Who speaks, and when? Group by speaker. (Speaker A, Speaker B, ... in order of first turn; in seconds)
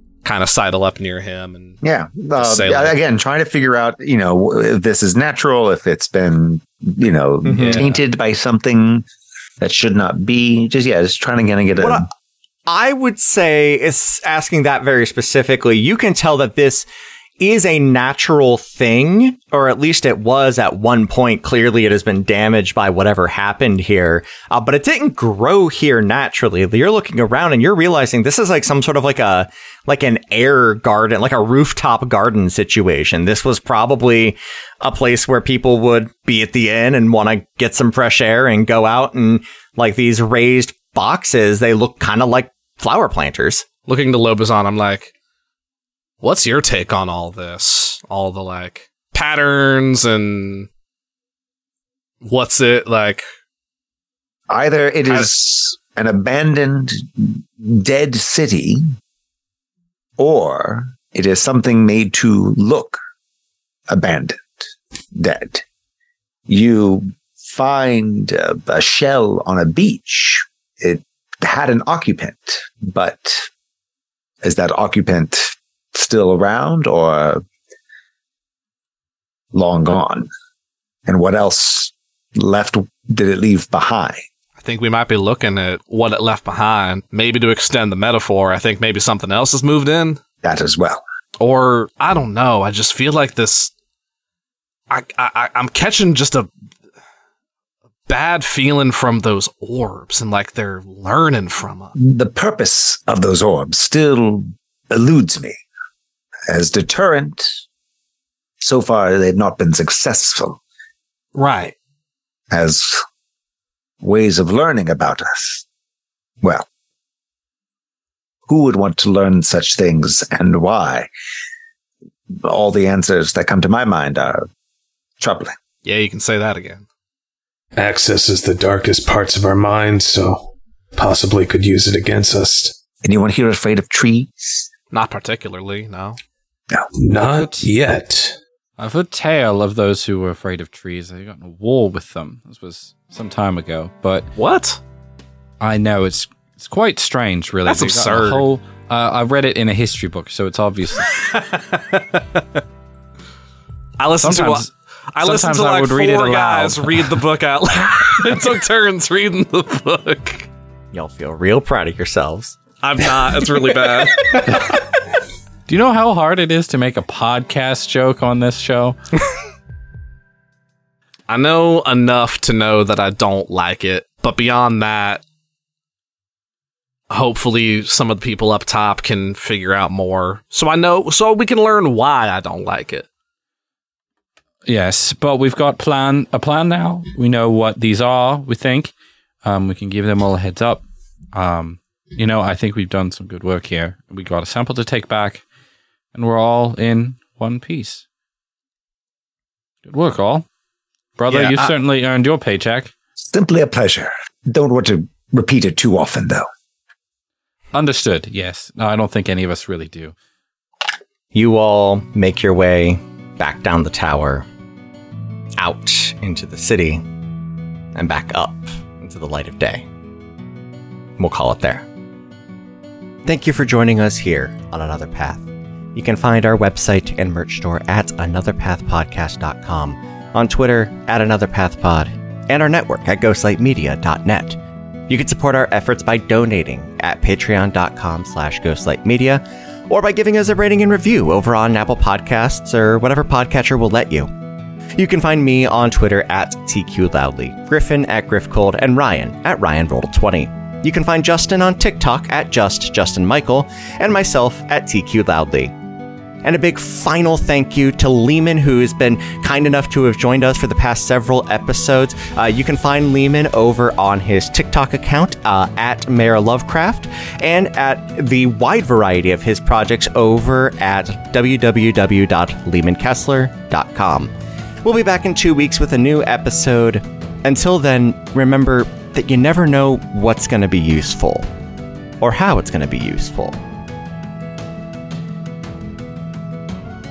Speaker A: 0.2-1.8, 2.4-3.0, 43.9-45.1, 46.2-50.7, 52.2-53.2, 55.1-55.3, 84.6-90.2, 91.4-93.7, 94.9-96.5, 98.1-102.0, 111.3-111.8, 125.8-126.9, 134.9-136.2, 144.4-144.8, 147.7-148.5, 151.1-152.4, 154.0-160.5, 162.8-164.4, 171.3-175.2, 177.1-183.1, 201.3-201.7
Speaker B: 1.8-9.1, 9.6-12.1, 54.5-58.8, 60.2-63.0, 63.9-64.6, 65.2-65.6, 66.5-73.5, 74.4-77.4, 79.5-80.3, 81.1-84.2, 90.4-91.0, 102.0-105.6, 106.5-107.5, 108.6-110.6, 112.5-113.0, 114.0-115.6, 118.5-121.1, 122.4-124.4, 125.2-125.5, 133.0-134.7, 203.3-206.5
Speaker C: 7.4-7.9, 11.8-12.1, 12.7-16.9, 17.4-43.7, 160.9-162.6, 211.3-214.5, 215.6-217.0, 217.9-219.8, 221.2-221.9, 223.2-225.4, 225.9-244.3, 245.0-255.7, 256.4-274.3, 274.8-281.5, 282.2-283.6
Speaker D: 7.5-8.0, 137.2-137.7, 138.8-144.3, 145.6-151.2, 154.2-154.7, 155.2-157.2, 165.7-169.0, 184.7-188.9, 189.4-195.4, 196.1-198.0, 199.9-200.5, 201.2-202.9, 207.7-210.2
Speaker E: 127.8-132.8, 136.9-138.4